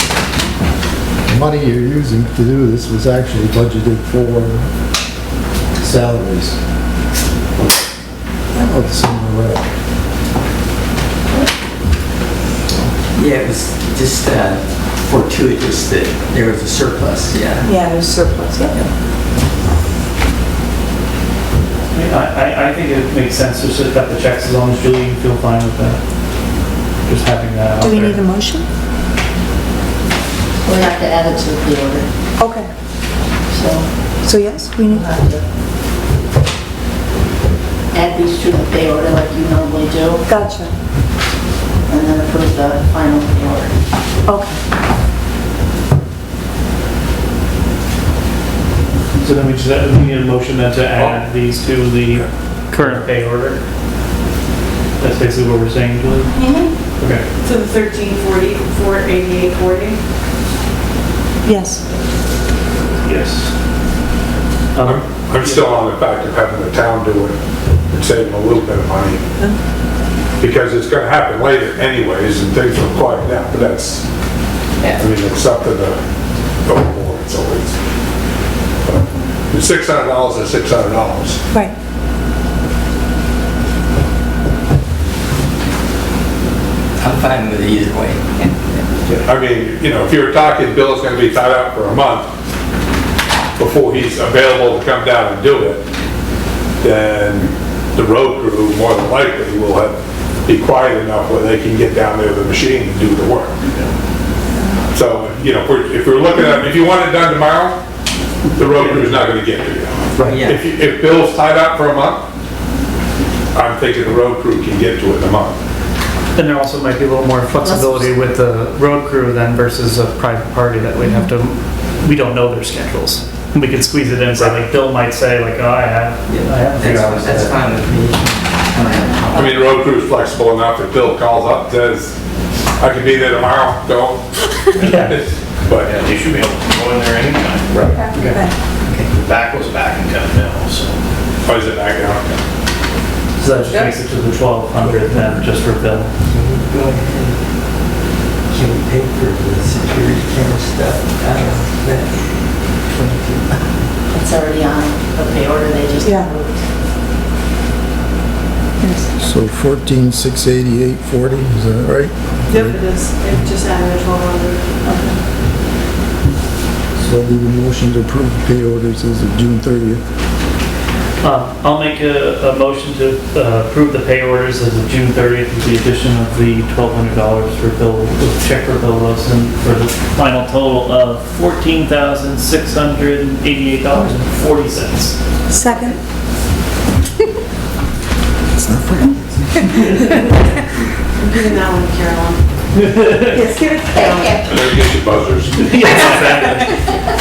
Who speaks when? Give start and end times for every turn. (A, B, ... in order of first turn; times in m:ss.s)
0:01.2-0:04.7 A
0:05.8-0:06.5 A
0:08.5-0:09.6 A
0:13.1-0:17.7 B
0:17.6-0:18.8 C
0:21.9-0:26.0 D
0:27.0-0:28.2 D
0:27.8-0:28.6 C
0:30.6-0:32.1 E
0:32.4-0:32.7 C
0:33.5-0:33.9 E
0:34.2-0:35.1 C
0:34.9-0:35.4 E
0:37.9-0:40.2 E
0:40.2-0:40.7 C
0:41.9-0:43.8 E
0:44.3-0:44.6 C
0:49.2-0:53.6 D
0:55.0-0:56.3 D
0:57.0-0:57.2 D
0:57.4-1:00.0 F
1:01.4-1:01.8 C
1:03.0-1:03.5 D
1:04.7-1:05.8 D
1:04.8-1:07.4 G
1:07.9-1:09.2 G
1:10.4-1:14.0 G
1:14.9-1:16.0 G
1:16.6-1:17.7 G
1:18.8-1:21.4 G
1:27.0-1:28.8 B
1:29.0-1:32.3 G
1:33.6-1:35.8 G
1:36.8-1:43.6 G
1:44.9-1:47.8 G
1:48.6-1:52.2 G
1:48.8-1:49.2 D
1:50.2-1:50.6 B
1:53.5-1:55.6 G
1:56.3-2:07.7 D
1:57.6-1:58.1 C
2:01.0-2:01.3 C
2:06.3-2:09.6 B
2:09.3-2:12.1 G
2:12.8-2:14.2 G
2:14.8-2:15.2 D
2:14.8-2:16.1 G
2:15.9-2:17.7 H
2:17.7-2:18.0 G
2:18.0-2:18.5 C
2:18.1-2:18.4 D
2:18.8-2:19.2 B
2:19.2-2:21.0 H
2:21.4-2:22.3 G
2:23.4-2:26.1 D
2:24.8-2:25.4 A
2:26.3-2:27.4 B
2:28.5-2:32.2 B
2:32.9-2:33.6 B
2:34.1-2:36.6 E
2:36.0-2:36.3 C
2:38.8-2:39.1 C
2:39.2-2:42.8 A
2:42.5-2:44.8 F
2:44.8-2:45.2 C
2:47.0-2:50.0 A
2:51.2-3:05.2 D
3:05.5-3:06.0 C
3:08.7-3:09.1 C
3:11.2-3:12.5 F
3:12.8-3:13.5 D
3:13.3-3:14.4 C
3:14.5-3:15.6 G
3:15.6-3:17.0 D